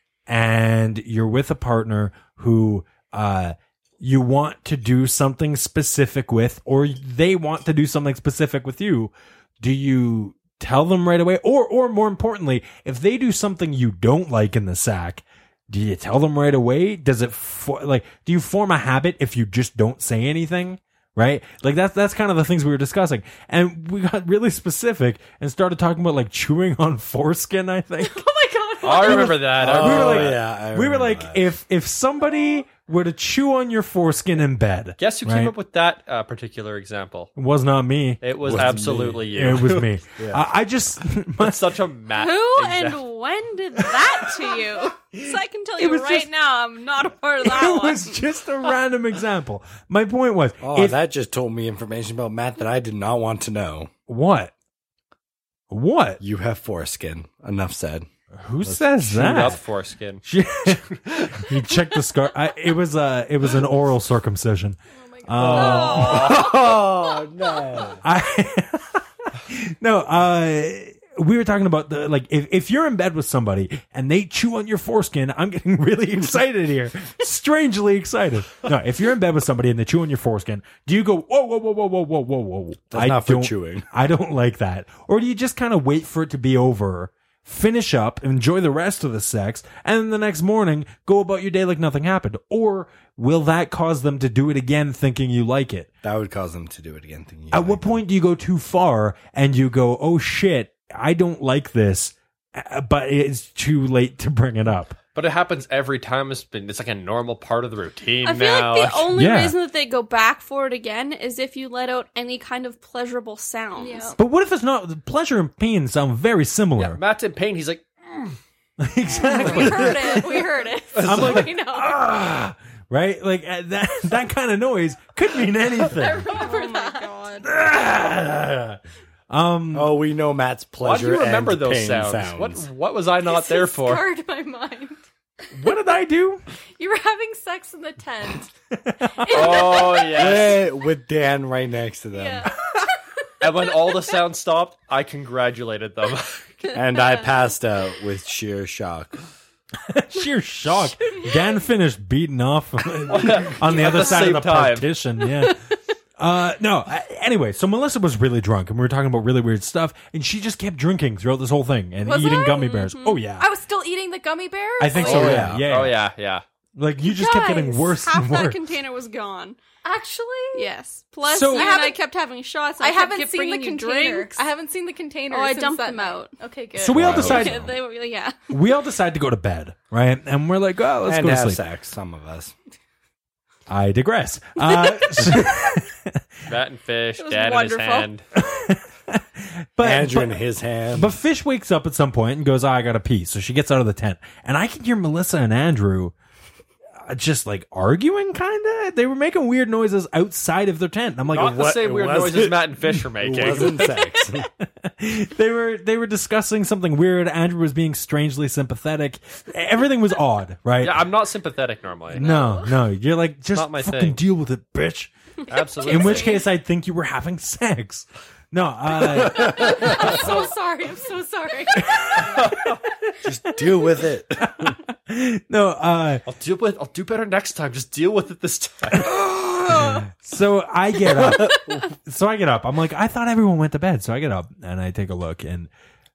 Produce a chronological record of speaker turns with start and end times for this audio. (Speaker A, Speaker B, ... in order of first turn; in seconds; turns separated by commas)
Speaker A: 0.3-28.2, Speaker B: 28.0-29.4, Speaker C: 28.8-30.4, Speaker A: 28.9-35.5, Speaker D: 29.5-31.5, Speaker C: 35.0-37.3, Speaker A: 37.4-41.6, Speaker C: 38.2-39.9, Speaker D: 38.4-39.2, Speaker D: 40.2-40.5, Speaker C: 41.4-43.0, Speaker E: 42.1-48.2, Speaker A: 45.1-46.3, Speaker A: 47.4-51.0, Speaker D: 50.6-53.9, Speaker A: 54.1-54.5, Speaker A: 55.7-56.2, Speaker D: 56.2-58.1, Speaker A: 58.4-59.6, Speaker D: 58.6-59.5, Speaker C: 59.1-60.2, Speaker A: 60.2-66.5, Speaker B: 65.0-66.2, Speaker D: 65.4-68.0, Speaker C: 65.5-66.5, Speaker E: 65.5-66.5, Speaker A: 68.0-95.9, Speaker D: 82.9-83.9, Speaker D: 96.0-98.0, Speaker A: 97.5-105.0, Speaker C: 105.2-109.1, Speaker E: 108.2-114.2, Speaker A: 109.2-109.6, Speaker B: 113.8-114.2, Speaker A: 114.2-117.0, Speaker C: 116.8-118.4, Speaker A: 118.8-126.3, Speaker B: 119.2-122.0, Speaker C: 119.6-120.1, Speaker C: 121.0-121.4, Speaker B: 125.8-127.2, Speaker E: 126.3-127.5, Speaker A: 127.4-130.0, Speaker D: 129.7-132.7, Speaker C: 130.8-134.1, Speaker B: 133.2-135.0, Speaker A: 135.5-136.4, Speaker B: 136.8-140.3, Speaker A: 138.7-139.6, Speaker C: 139.3-140.6, Speaker D: 140.1-142.5, Speaker B: 142.1-142.7, Speaker C: 143.4-146.7, Speaker D: 146.7-149.2, Speaker A: 149.9-155.6, Speaker C: 153.1-154.9, Speaker A: 156.2-163.5, Speaker B: 162.0-165.5, Speaker E: 162.8-163.2, Speaker A: 164.8-166.0, Speaker D: 165.0-165.7, Speaker C: 165.4-166.4, Speaker A: 166.8-168.6, Speaker E: 167.0-169.6, Speaker B: 169.8-170.7, Speaker E: 170.5-174.5, Speaker A: 171.3-171.7, Speaker B: 171.5-172.0, Speaker B: 172.8-177.3, Speaker E: 175.3-176.3, Speaker A: 176.8-177.7, Speaker D: 176.9-177.7, Speaker C: 177.0-177.4, Speaker E: 177.2-178.3, Speaker A: 178.5-181.6, Speaker D: 181.1-182.5, Speaker A: 183.7-186.2, Speaker C: 186.5-188.2, Speaker E: 187.2-188.1, Speaker A: 188.4-190.4, Speaker D: 189.8-191.2, Speaker A: 190.9-196.1, Speaker A: 197.0-201.6, Speaker D: 201.3-204.5, Speaker C: 201.3-203.9, Speaker A: 204.4-211.1, Speaker C: 210.8-212.2, Speaker A: 212.2-215.1, Speaker E: 212.2-212.7, Speaker C: 213.5-214.2, Speaker C: 215.5-216.4, Speaker A: 215.9-219.7, Speaker E: 215.9-216.4, Speaker B: 219.3-222.3, Speaker D: 219.7-219.9, Speaker A: 221.9-222.6, Speaker C: 222.4-222.8, Speaker D: 223.2-224.7, Speaker A: 224.4-226.2, Speaker C: 226.3-229.2, Speaker A: 228.9-235.7, Speaker B: 229.7-230.0, Speaker C: 231.0-231.5